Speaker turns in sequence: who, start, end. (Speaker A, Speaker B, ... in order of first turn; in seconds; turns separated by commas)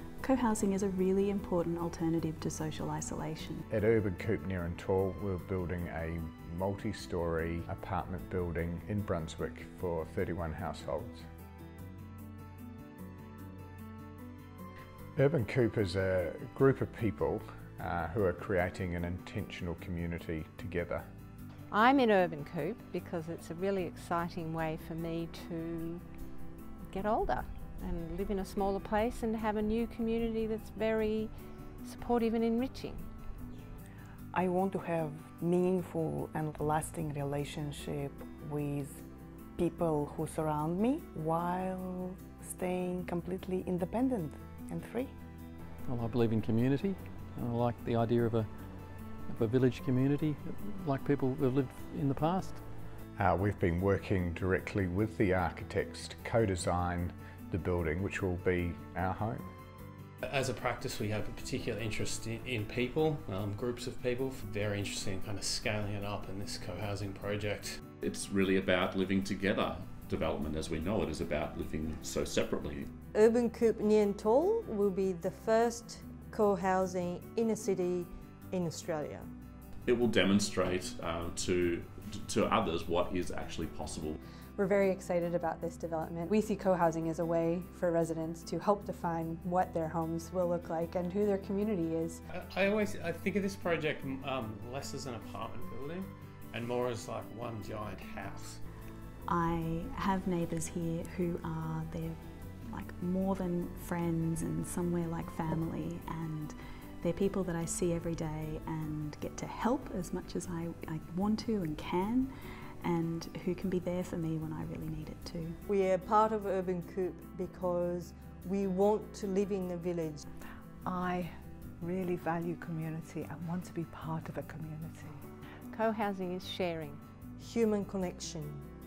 Speaker A: 0.2-3.6, Speaker B: 3.7-11.3, Speaker B: 15.2-21.1, Speaker C: 21.7-26.0, Speaker C: 26.9-31.3, Speaker C: 31.8-33.1, Speaker D: 34.3-39.0, Speaker D: 39.6-45.1, Speaker E: 45.8-52.6, Speaker B: 53.1-59.5, Speaker F: 60.2-67.8, Speaker G: 68.0-72.9, Speaker H: 73.1-79.3, Speaker G: 79.9-84.2, Speaker I: 84.6-92.2, Speaker F: 92.3-98.6, Speaker A: 99.3-115.6, Speaker H: 115.7-120.2, Speaker J: 120.8-125.3, Speaker C: 125.7-127.0, Speaker H: 127.4-128.7